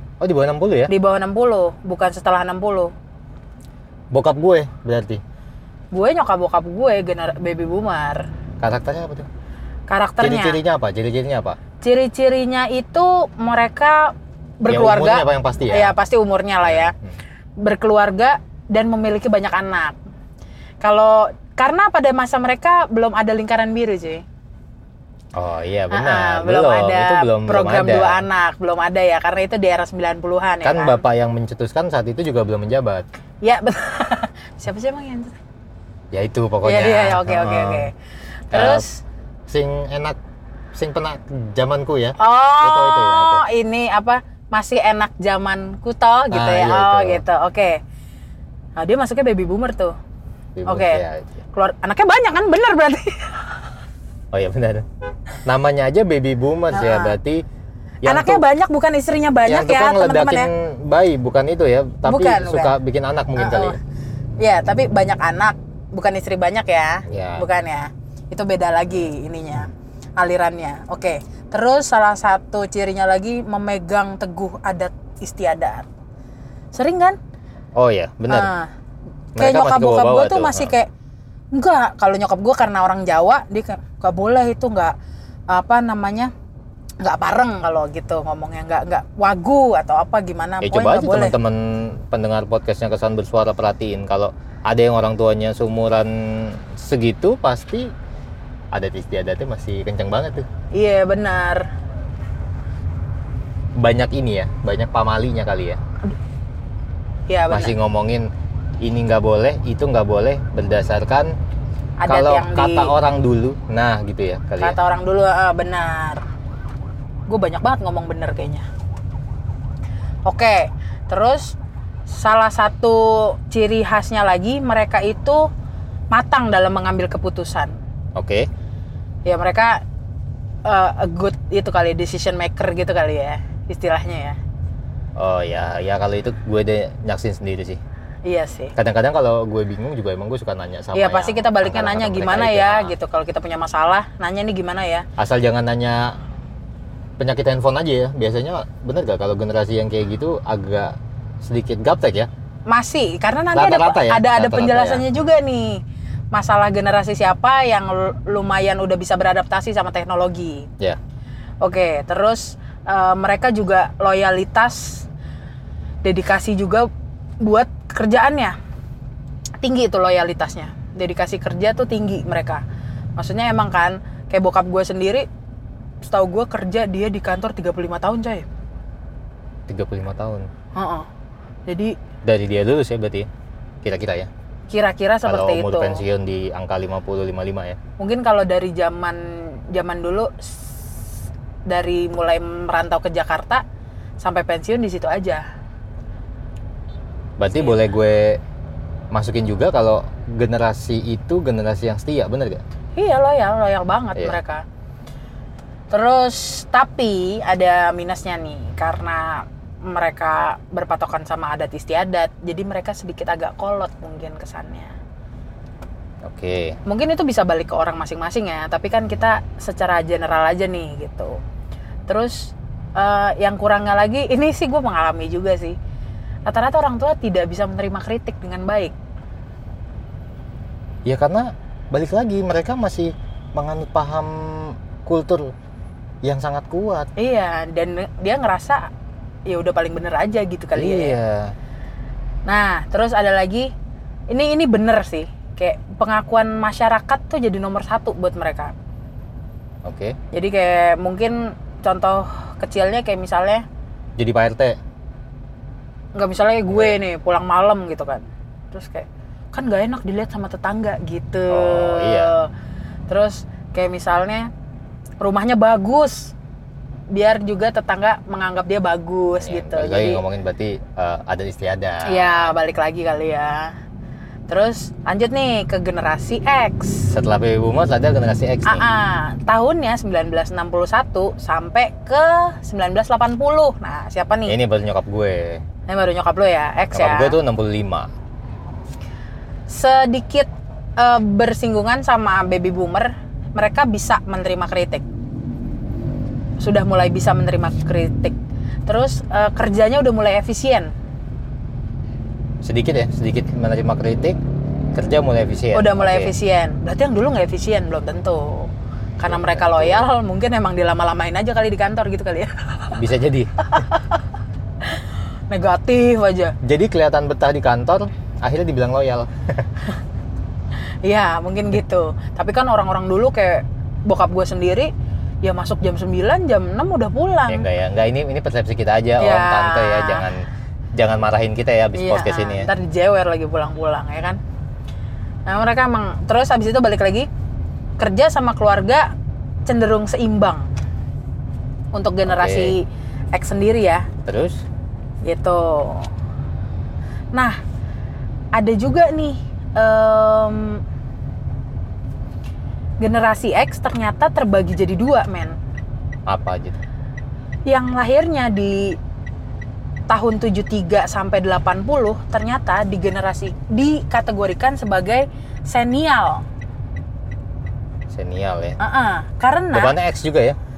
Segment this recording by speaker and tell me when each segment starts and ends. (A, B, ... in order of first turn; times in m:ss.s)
0:00.2-0:00.9 A
0:00.9-0:02.9 B
0:04.1-0:05.2 A
0:05.9-0:08.2 B
0:08.6-0:09.3 A
0:09.9-0:10.6 B
0:10.2-0:11.6 A
0:11.8-0:16.9 B
0:14.7-0:15.9 A
0:16.6-0:17.1 A
0:17.6-0:20.0 B
0:20.8-0:24.2 B
0:25.3-0:28.3 A
0:25.9-0:31.0 B
0:30.6-0:33.0 A
0:33.4-0:35.4 B
0:36.1-0:37.9 A
0:36.6-0:37.9 B
0:38.5-0:39.0 B
0:38.5-0:38.8 A
0:39.5-0:40.2 A
0:40.7-0:43.4 A
0:42.2-0:47.8 B
0:46.3-0:47.2 A
0:48.8-0:49.9 B
0:50.6-0:51.4 A
0:50.6-0:53.5 B
0:54.3-0:54.8 A
0:55.4-0:57.4 A
0:56.7-0:57.2 B
0:58.0-0:58.4 A
0:58.0-1:00.5 B
0:59.4-1:03.8 A
1:02.0-1:02.8 B
1:03.4-1:03.8 B
1:04.4-1:15.8 B
1:07.1-1:07.5 A
1:16.7-1:17.2 B
1:17.7-1:18.5 A
1:18.3-1:18.7 B
1:19.3-1:20.7 A
1:19.4-1:20.9 B
1:21.5-1:24.9 B
1:25.5-1:26.3 B
1:27.0-1:31.4 B
1:30.6-1:37.9 A
1:38.7-1:40.4 A
1:40.7-1:41.7 B
1:43.8-1:45.8 A
1:47.3-1:47.7 B
1:47.5-1:48.3 A
1:48.8-1:51.3 A
1:52.0-1:52.9 B
1:52.0-1:54.8 A
1:54.6-1:56.2 B
1:57.3-1:58.6 B
2:00.2-2:01.6 B
2:02.1-2:05.5 B
2:06.1-2:07.7 B
2:08.1-2:08.5 A
2:09.2-2:09.8 B
2:10.6-2:14.4 B
2:15.2-2:17.8 A
2:18.2-2:18.7 B
2:18.8-2:22.9 A
2:20.9-2:25.0 B
2:25.2-2:26.2 A
2:27.2-2:32.3 A
2:32.7-2:40.7 B
2:33.5-2:35.1 A
2:41.6-2:45.1 B
2:46.0-2:46.9 B
2:47.4-2:48.5 B
2:49.6-2:52.6 B
2:53.2-2:55.3 B
2:56.0-2:58.4 B
2:59.7-3:00.5 A
3:00.8-3:01.1 B
3:01.7-3:02.0 B
3:02.2-3:03.3 A
3:03.8-3:04.3 A
3:04.7-3:06.0 B
3:05.2-3:07.8 A
3:08.0-3:10.7 B
3:11.7-3:13.6 B
3:14.2-3:15.4 B
3:17.4-3:18.4 A
3:19.1-3:22.6 A
3:23.0-3:24.6 B
3:25.9-3:34.9 B
3:36.2-3:36.8 A
3:36.8-3:41.4 B
3:42.1-3:45.8 B
3:46.4-3:48.9 B
3:51.0-3:55.5 A
3:56.2-3:57.1 A
3:57.2-3:58.9 B
3:59.5-4:01.2 B
4:00.7-4:01.5 A
4:02.4-4:03.7 B
4:04.3-4:08.7 B
4:09.8-4:10.2 A
4:10.3-4:13.6 B
4:14.2-4:14.8 A
4:16.2-4:22.5 B
4:16.7-4:17.0 A
4:21.5-4:22.3 A
4:23.1-4:24.5 B
4:25.2-4:26.3 B
4:27.1-4:30.2 B
4:29.4-4:32.5 A
4:32.0-4:33.7 B
4:34.5-4:37.1 B
4:37.1-4:38.8 A
4:38.6-4:44.5 B
4:44.5-4:45.6 A
4:45.9-4:47.4 B
4:46.9-4:48.1 A
4:49.7-4:55.0 B
4:56.6-4:58.4 B
4:58.9-5:00.9 B
5:02.6-5:04.4 A
5:04.9-5:06.3 A
5:05.7-5:13.0 B
5:09.2-5:10.1 A
5:12.9-5:13.5 A
5:13.7-5:14.2 B
5:14.8-5:16.6 B
5:16.6-5:19.8 A
5:21.0-5:24.9 B
5:25.4-5:27.6 B
5:27.5-5:30.4 A
5:29.2-5:30.3 B
5:30.9-5:32.7 A
5:31.9-5:34.4 B
5:35.5-5:37.3 B
5:38.0-5:39.1 B
5:39.6-5:40.7 B
5:41.9-5:44.1 B
5:42.2-5:42.7 A
5:44.2-5:44.6 A
5:45.2-5:46.1 B
5:47.3-5:47.6 B
5:48.5-5:50.8 B
5:53.0-5:55.6 B
5:56.3-5:56.8 A
5:57.6-5:59.0 B
6:00.1-6:06.4 B
6:08.1-6:08.8 A
6:08.8-6:09.9 B
6:09.7-6:10.6 A